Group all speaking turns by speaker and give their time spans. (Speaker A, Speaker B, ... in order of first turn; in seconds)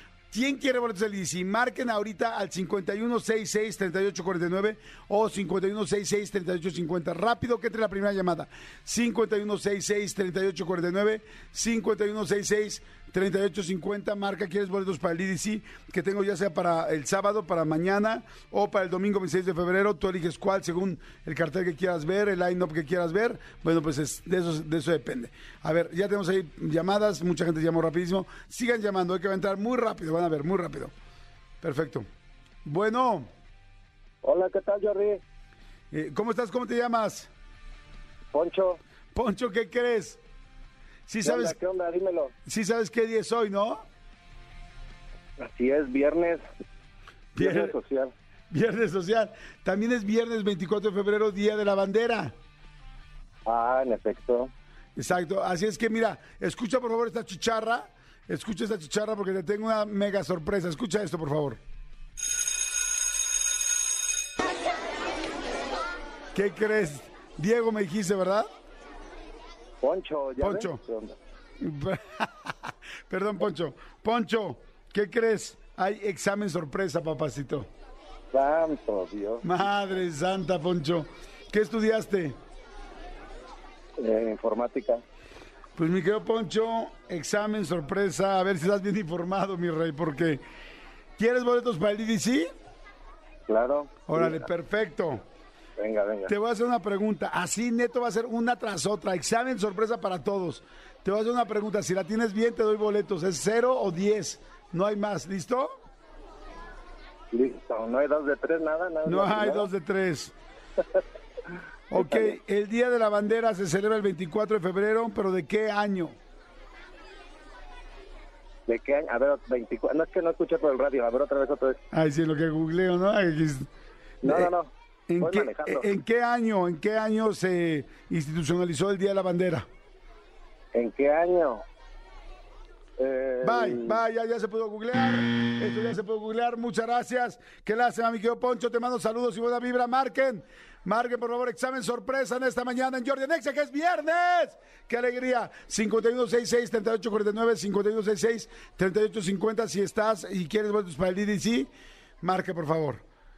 Speaker A: 0.3-30.9, 31.6-32.1, 32.6-33.3, 35.9-37.3, 39.1-40.2, 41.1-41.6, 42.5-43.8, 47.3-47.8, 48.5-52.3, 55.0-61.6, 66.3-68.5, 70.4-70.8, 71.6-77.7, 79.4-82.4, 85.8-90.4, 91.2-92.5, 94.1-95.2, 96.3-105.7, 109.0-110.3, 111.9-116.2, 121.9-123.7, 124.2-124.5, 125.1-129.7, 133.4-153.0
Speaker B: 34.2-35.2, 38.3-38.8, 41.2-42.3, 45.4-46.4, 47.4-48.1, 53.4-54.5, 69.8-71.1, 78.3-79.4, 84.0-85.0, 93.5-94.4, 95.8-96.3, 107.3-109.7, 118.7-121.8, 124.2-125.9, 130.7-131.6, 133.0-134.0